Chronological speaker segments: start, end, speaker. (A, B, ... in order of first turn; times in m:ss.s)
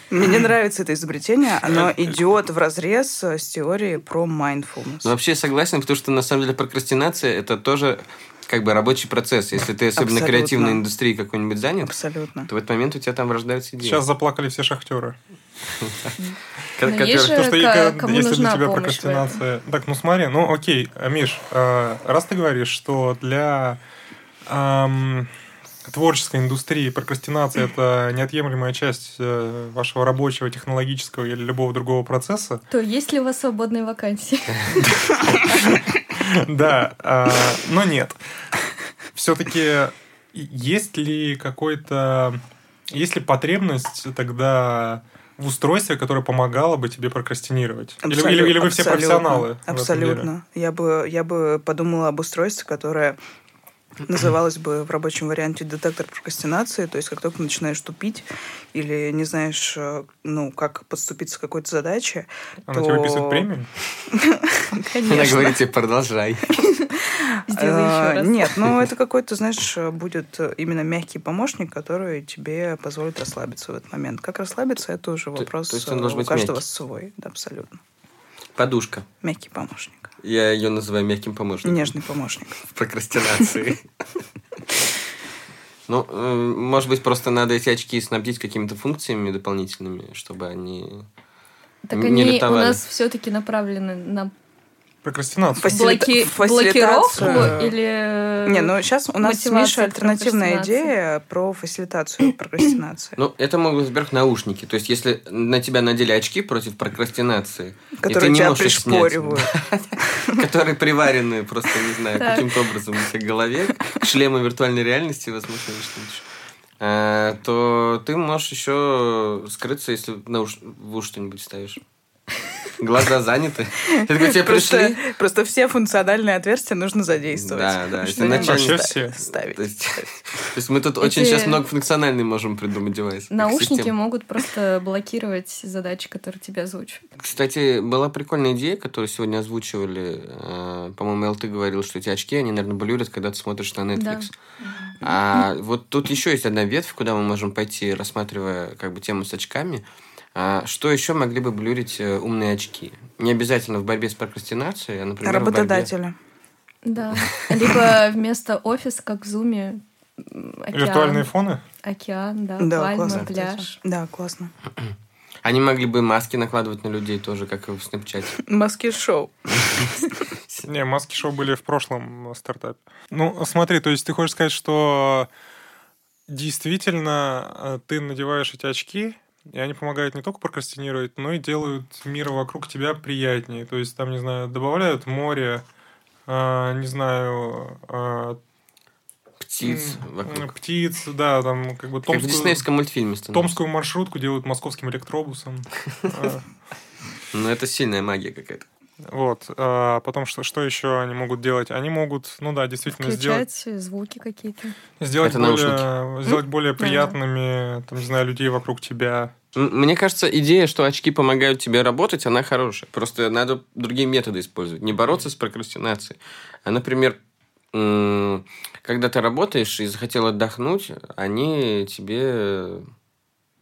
0:00.1-0:05.1 A
0:05.0-0:11.9 B
0:10.0-0:10.8 A
0:11.8-0:12.5 A
0:12.5-0:14.0 B
0:13.8-0:15.2 C
0:16.8-0:17.4 B
0:16.8-0:19.4 D
0:17.1-0:23.8 C
0:24.4-0:25.3 C
0:25.9-0:32.6 C
0:32.7-0:34.8 D
0:34.8-0:38.2 C
0:39.1-0:50.3 C
0:48.0-0:53.2 A
0:54.0-1:03.5 A
1:02.7-1:03.7 C
1:04.1-1:05.6 A
1:05.0-1:06.6 B
1:07.1-1:17.8 A
1:07.5-1:08.5 D
1:15.4-1:16.6 B
1:18.6-1:19.1 B
1:19.2-1:20.1 A
1:20.2-1:21.9 B
1:21.6-1:22.6 A
1:22.7-1:23.8 B
1:25.9-1:31.0 B
1:31.8-1:34.3 D
1:31.9-1:32.8 B
1:35.0-1:35.8 C
1:35.6-1:37.7 A
1:35.7-1:40.9 D
1:38.4-1:43.2 A
1:43.2-1:56.2 B
1:48.0-1:49.5 A
1:50.1-1:50.4 A
1:52.2-1:52.5 D
1:56.8-2:01.8 B
2:02.8-2:05.0 B
2:03.9-2:10.1 A
2:07.3-2:13.9 B
2:08.2-2:09.2 C
2:11.0-2:11.6 D
2:13.3-2:17.0 D
2:17.2-2:24.3 B
2:23.9-2:24.3 D
2:25.0-2:29.8 B
2:30.3-2:35.9 B
2:35.2-2:36.2 A
2:36.8-2:41.3 D
2:40.7-2:41.6 C
2:41.8-2:43.8 D
2:42.6-2:44.5 A
2:45.4-2:48.4 B
2:48.4-2:50.0 A
2:50.6-2:55.3 C
2:56.3-3:05.6 C
3:06.3-3:08.4 C
3:09.4-3:10.5 B
3:09.6-3:12.6 C
3:12.1-3:13.5 B
3:13.3-3:16.4 C
3:17.3-3:18.6 B
3:19.1-3:23.4 C
3:22.9-3:24.8 D
3:25.0-3:29.3 C
3:25.2-3:25.9 B
3:26.3-3:27.1 D
3:29.5-3:37.2 B
3:37.7-3:42.9 B